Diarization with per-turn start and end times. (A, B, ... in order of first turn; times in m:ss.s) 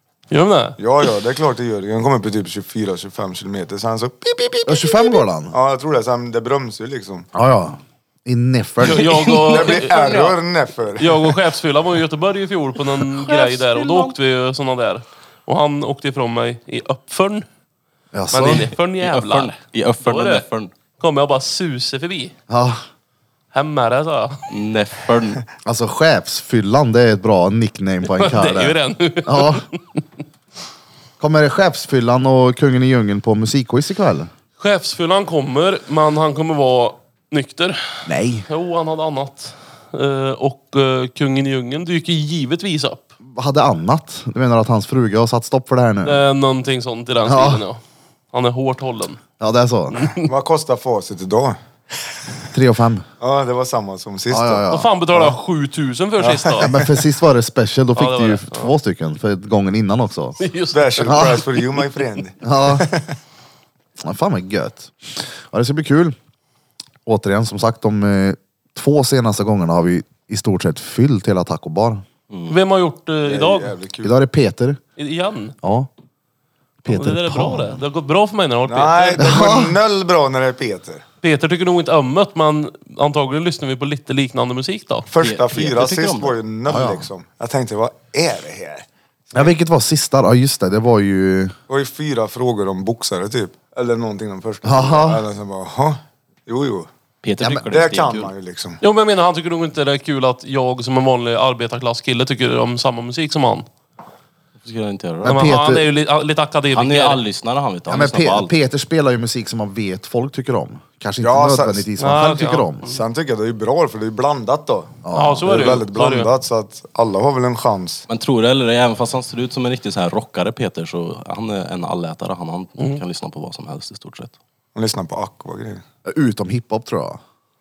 0:00.3-0:00.8 A
0:00.8-0:07.3 B
0:04.7-0:05.6 C
0:07.3-0:09.2 C
0:08.8-0:10.4 A
0:09.0-0:10.2 D
0:09.4-0:11.4 B
0:11.0-0:17.5 A
0:13.0-0:14.2 D
0:18.1-0:18.7 C
0:18.3-0:20.4 A
0:19.0-0:20.7 D
0:21.0-0:22.3 A
0:22.5-0:22.8 C
0:23.5-0:24.4 A
0:24.5-0:25.4 D
0:25.6-0:29.6 C
0:28.0-0:29.7 A
0:31.2-0:34.3 C
0:34.6-0:43.1 A
0:38.0-0:38.5 C
0:43.3-0:46.2 C
0:46.0-0:47.8 A
0:47.2-0:47.6 C
0:48.3-0:49.2 A
0:49.4-0:50.1 C
0:49.9-0:50.3 A
0:50.2-0:51.6 B
0:52.5-0:53.1 C
0:53.2-0:54.7 B
0:54.3-0:54.9 C
0:54.7-0:56.7 A
0:56.2-0:56.9 B
0:56.6-1:00.4 C
0:58.0-0:58.7 A
1:00.4-1:01.4 A
1:00.7-1:03.2 B
1:01.0-1:01.4 C
1:02.4-1:02.9 C
1:04.0-1:06.2 C
1:07.0-1:12.0 C
1:12.3-1:12.6 D
1:12.5-1:13.8 A
1:13.3-1:14.2 B
1:14.0-1:14.8 C
1:15.0-1:15.6 A
1:15.6-1:15.9 C
1:16.8-1:17.8 C
1:16.9-1:19.3 A
1:18.7-1:21.0 B
1:19.2-1:19.8 C
1:21.2-1:25.1 A
1:25.1-1:29.5 B
1:25.2-1:26.4 D
1:26.7-1:27.1 C
1:29.3-1:31.6 C
1:31.7-1:36.9 B
1:34.6-1:35.2 C
1:37.2-1:38.3 D
1:37.7-1:38.8 B
1:38.8-1:43.7 A
1:44.6-1:45.5 D
1:45.2-1:45.9 C
1:45.2-1:47.2 A
1:46.7-1:48.5 D
1:47.9-1:52.9 C
1:51.2-1:51.9 B
1:52.0-1:53.0 A
1:52.8-1:58.1 B
1:55.0-1:55.5 C
1:55.1-1:56.3 A
1:58.1-2:04.3 D
2:04.8-2:05.8 B
2:06.0-2:07.2 C